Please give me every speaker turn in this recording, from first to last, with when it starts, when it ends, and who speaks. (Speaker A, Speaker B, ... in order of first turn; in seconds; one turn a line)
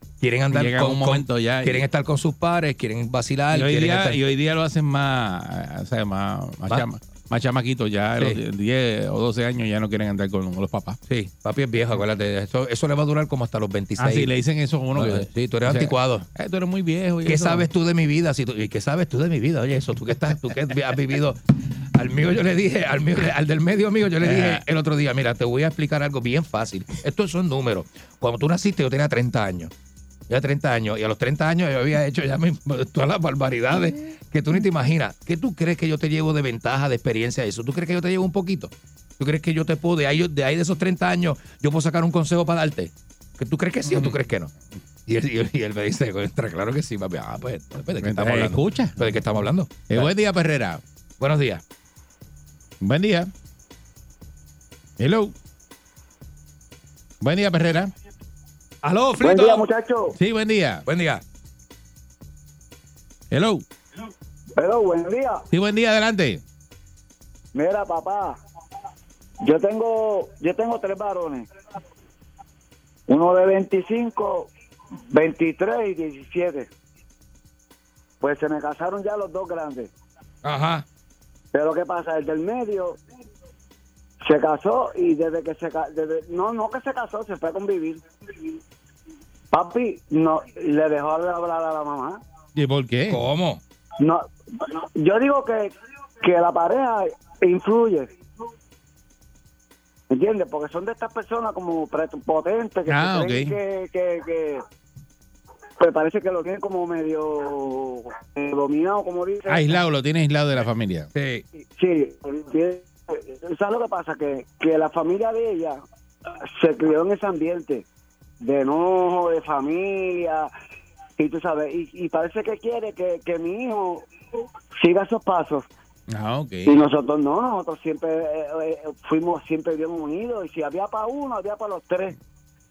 Speaker A: 0.2-4.2
Speaker B: 0.5-1.8
Speaker B: 3.5-11.0
Speaker A: 11.1-14.3
Speaker B: 14.0-17.6
Speaker A: 14.9-16.2
Speaker A: 17.2-21.4
Speaker A: 21.9-29.7
Speaker B: 24.2-24.6
Speaker A: 30.3-44.5
Speaker B: 43.8-44.2
Speaker A: 45.1-50.1
Speaker B: 48.0-49.0
Speaker B: 49.9-50.8
Speaker A: 51.2-51.6
Speaker B: 52.8-53.3
Speaker B: 55.0-55.3
Speaker B: 57.2-57.9
Speaker A: 58.8-59.7
Speaker C: 59.2-60.1
Speaker B: 60.2-60.8
Speaker A: 60.9-61.2
Speaker B: 63.3-63.6
Speaker C: 64.6-65.4
Speaker B: 65.5-66.4
Speaker C: 67.5-68.4
Speaker C: 69.4-71.5
Speaker C: 73.1-74.5
Speaker C: 75.1-76.7
Speaker C: 78.2-79.9
Speaker A: 80.4-80.8
Speaker C: 81.5-83.0
Speaker C: 84.2-88.0
Speaker C: 89.5-92.2
Speaker B: 92.5-93.2
Speaker A: 93.1-93.6
Speaker C: 94.0-98.1
Speaker C: 100.1-104.6
Speaker B: 102.9-103.6
Speaker C: 105.8-109.8
Speaker B: 109.5-111.1
Speaker A: 111.1-111.4
Speaker C: 111.6-115.8
Speaker C: 116.5-117.8
Speaker C: 118.4-120.5
Speaker C: 121.2-124.0
Speaker C: 124.8-125.7
Speaker B: 126.1-126.8
Speaker C: 126.7-132.2